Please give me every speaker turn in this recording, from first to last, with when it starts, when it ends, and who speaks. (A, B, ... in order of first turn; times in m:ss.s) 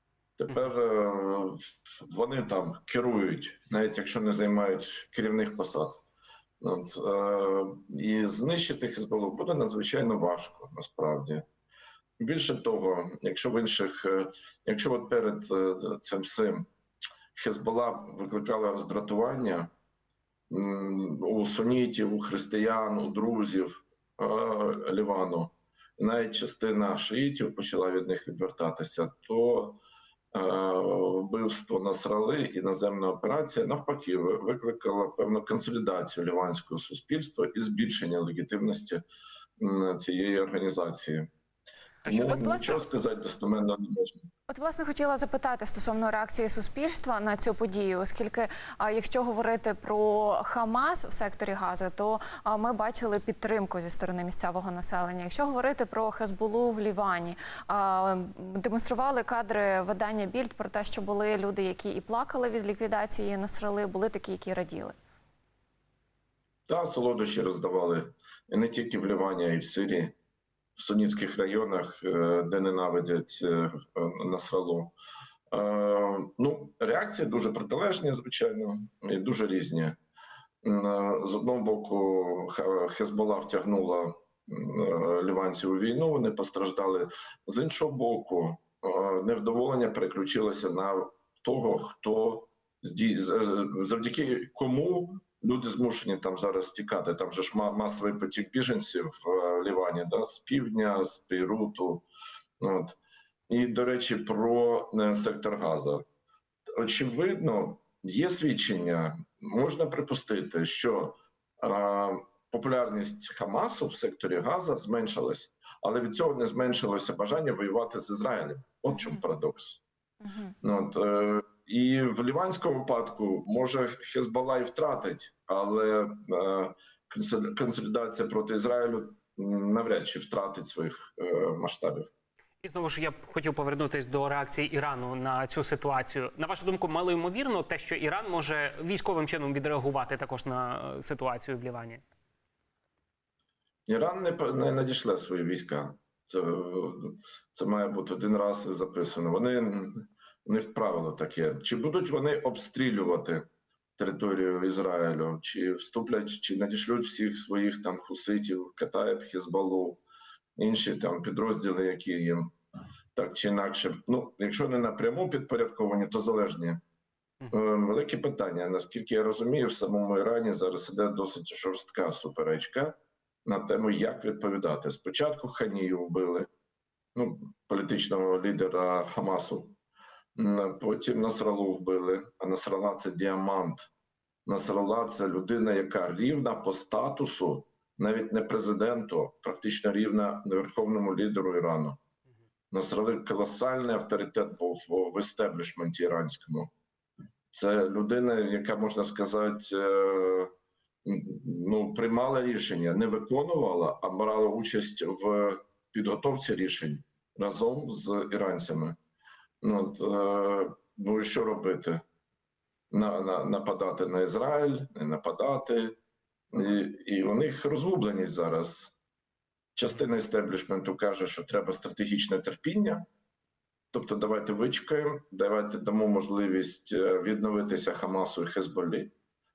0:00.4-0:06.0 A
0:06.6-0:11.4 A
0:12.2-0:16.7 A
0:17.3-0:19.7 A
0:20.5-0:29.8 A
0:30.3-0:39.0 A
0:39.6-0:41.3 A
0:42.0-0:42.5 B
0:42.0-0:44.2 A
0:42.3-0:42.8 C
0:44.5-1:05.0 C
1:06.7-1:10.1 A
1:10.8-1:14.9 A
1:15.5-1:20.0 A
1:20.6-1:42.1 A
1:42.6-1:43.0 A
1:43.5-1:46.0 A
1:46.8-1:59.8 A
2:00.2-2:00.5 C
2:00.6-2:12.1 A
2:12.6-2:22.0 B
2:23.9-2:40.0 A
2:40.6-2:42.5 A
2:43.1-2:46.8 A
2:47.5-2:56.5 A
2:57.1-2:59.8 A
3:00.4-3:03.9 A
3:04.4-3:12.0 A
3:12.7-3:16.7 A
3:17.5-3:20.5 A
3:21.0-3:29.0 A
3:29.6-3:32.0 A
3:32.9-3:36.0 A
3:36.5-3:38.9 A
3:39.8-3:43.0 A
3:43.9-3:49.1 A